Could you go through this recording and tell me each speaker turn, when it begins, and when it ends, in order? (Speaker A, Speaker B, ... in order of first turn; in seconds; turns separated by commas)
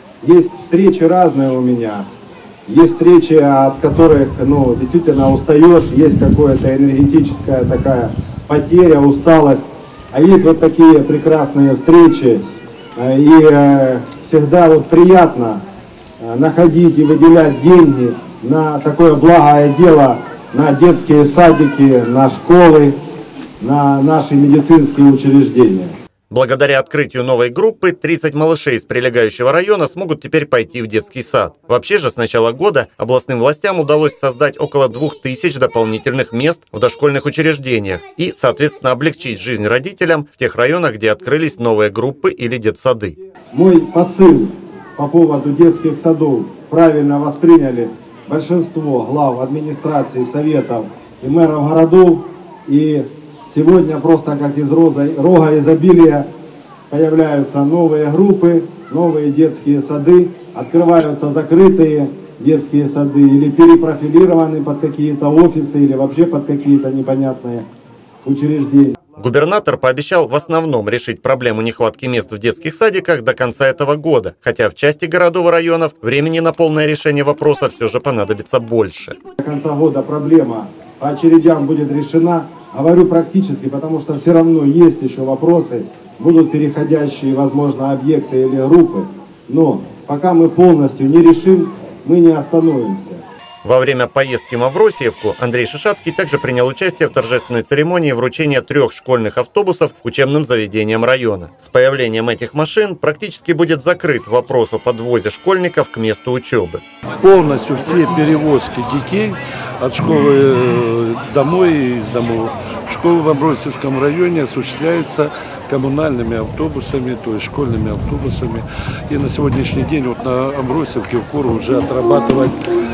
Speaker A: 0.2-2.1, Speaker A: 2.7-12.4, Speaker A: 12.9-15.6, Speaker A: 16.2-23.0, Speaker A: 23.6-25.9, Speaker B: 26.3-43.2, Speaker A: 43.5-56.3, Speaker A: 56.9-67.7, Speaker A: 68.2-69.0, Speaker B: 69.2-79.2, Speaker A: 79.4-93.2, Speaker B: 93.6-106.8, Speaker C: 107.2-122.6